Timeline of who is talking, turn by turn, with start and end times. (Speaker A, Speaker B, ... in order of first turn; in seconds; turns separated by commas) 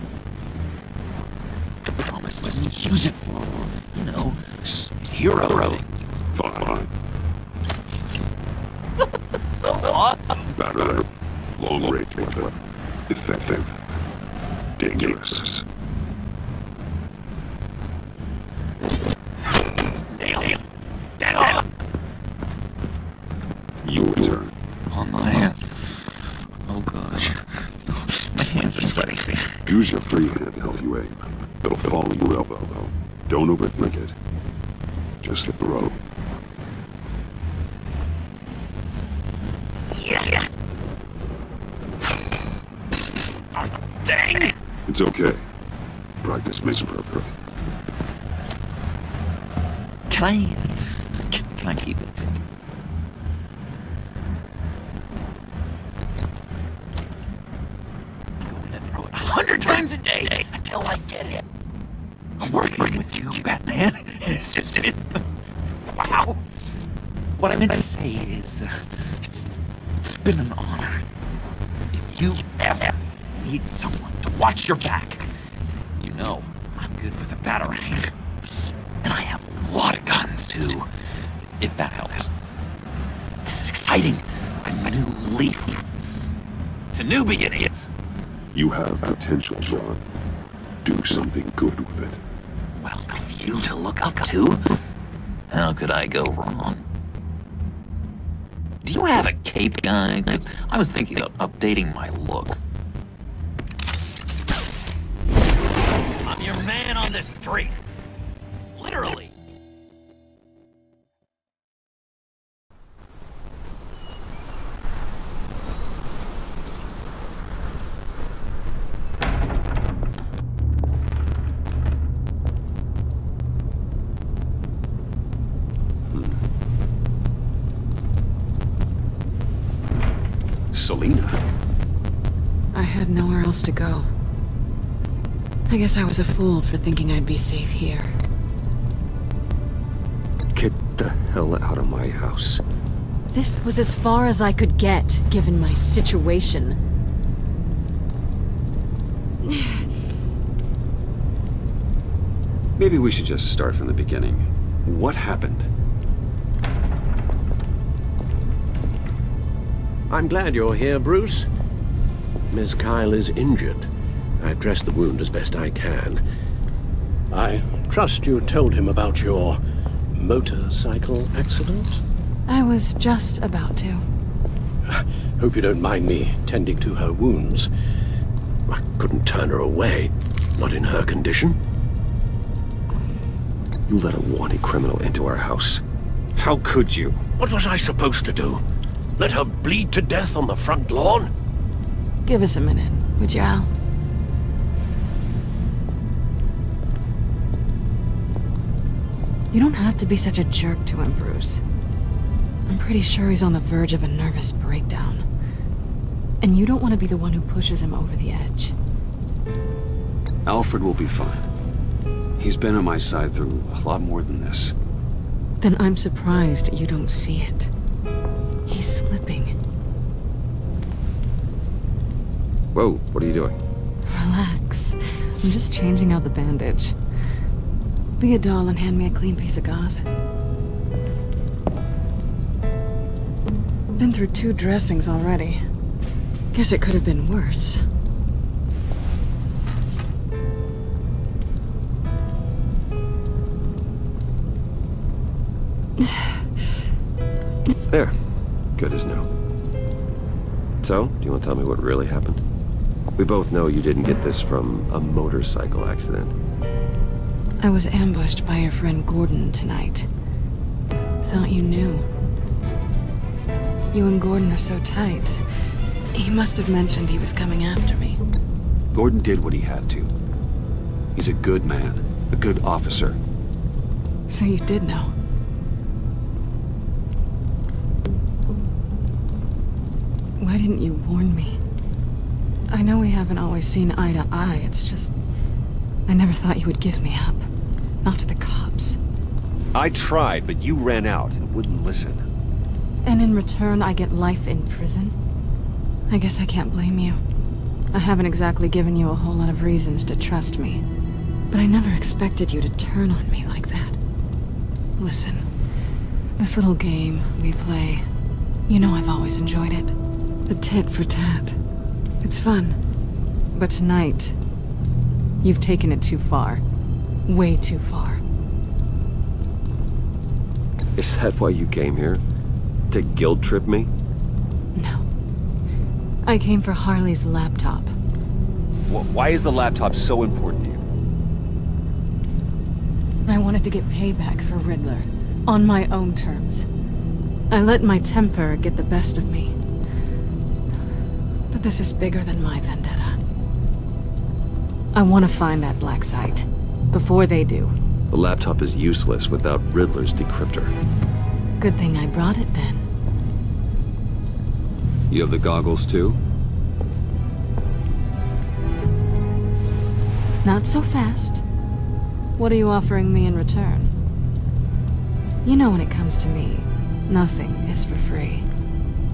Speaker A: 1.8-5.9, Speaker B: 6.3-6.9, Speaker A: 9.4-10.4, Speaker B: 10.5-11.1, Speaker B: 11.6-12.5, Speaker B: 13.1-13.8, Speaker B: 14.8-15.7, Speaker A: 20.1-20.6, Speaker A: 21.2-21.6, Speaker B: 23.8-24.5, Speaker A: 24.9-26.0, Speaker A: 26.7-29.5, Speaker B: 29.6-34.1, Speaker B: 35.2-36.0, Speaker A: 40.1-40.4, Speaker A: 44.1-44.5, Speaker B: 44.9-45.4, Speaker B: 46.2-47.3, Speaker A: 50.1-52.3, Speaker A: 58.4-61.4, Speaker A: 62.4-65.2, Speaker A: 65.9-66.4, Speaker A: 67.4-71.0, Speaker A: 71.9-75.3, Speaker A: 76.0-78.1, Speaker A: 79.0-80.9, Speaker A: 81.6-82.3, Speaker A: 83.5-85.8, Speaker A: 86.9-87.9, Speaker B: 88.5-90.0, Speaker B: 90.8-92.2, Speaker A: 92.8-94.6, Speaker A: 95.5-96.8, Speaker A: 98.8-102.6, Speaker A: 106.2-107.8, Speaker A: 108.8-109.3, Speaker C: 130.7-131.4, Speaker D: 132.7-134.1, Speaker D: 135.7-138.1, Speaker C: 140.5-142.6, Speaker D: 143.3-146.8, Speaker C: 152.8-155.7, Speaker E: 160.1-161.5, Speaker E: 162.5-166.2, Speaker E: 167.3-169.6, Speaker E: 170.1-172.0, Speaker D: 172.5-174.1, Speaker E: 174.9-177.7, Speaker E: 178.7-181.6, Speaker C: 183.9-185.8, Speaker C: 186.4-187.2, Speaker E: 187.4-188.6, Speaker E: 189.2-191.3, Speaker D: 192.3-193.7, Speaker D: 199.5-201.6, Speaker D: 202.7-205.2, Speaker D: 206.4-208.8, Speaker C: 210.4-211.5, Speaker C: 212.4-214.8, Speaker D: 215.6-217.7, Speaker D: 218.7-219.6, Speaker C: 222.7-223.6, Speaker D: 224.1-227.0, Speaker D: 228.2-230.1, Speaker D: 234.0-235.6, Speaker D: 236.5-237.8, Speaker D: 246.0-246.6, Speaker C: 247.9-248.2, Speaker C: 248.8-249.3, Speaker C: 250.8-252.4, Speaker C: 253.2-256.4, Speaker D: 257.6-260.1, Speaker D: 261.2-262.1, Speaker D: 263.9-265.4, Speaker D: 266.1-268.2, Speaker C: 268.9-270.1, Speaker C: 271.1-273.2, Speaker D: 274.3-275.1, Speaker D: 280.4-281.6, Speaker D: 282.7-285.1, Speaker D: 286.1-287.5, Speaker D: 288.0-289.0, Speaker C: 289.7-292.2, Speaker D: 293.1-295.2, Speaker D: 296.1-297.2, Speaker D: 297.9-300.8, Speaker D: 301.5-304.0, Speaker D: 305.0-305.5, Speaker D: 306.4-308.1, Speaker D: 308.7-310.0, Speaker D: 310.5-311.6, Speaker D: 312.2-312.8, Speaker D: 313.6-314.4, Speaker D: 315.4-316.6, Speaker D: 317.3-318.2, Speaker C: 321.0-322.2, Speaker C: 322.9-323.9, Speaker D: 324.8-325.1, Speaker D: 326.2-327.9, Speaker C: 328.9-330.8, Speaker D: 333.3-336.7, Speaker D: 337.5-339.6, Speaker D: 341.5-343.2, Speaker D: 344.9-347.7, Speaker C: 348.1-350.7, Speaker D: 351.6-352.9, Speaker C: 355.1-356.2, Speaker D: 360.4-361.4, Speaker D: 362.4-363.9, Speaker D: 365.4-368.5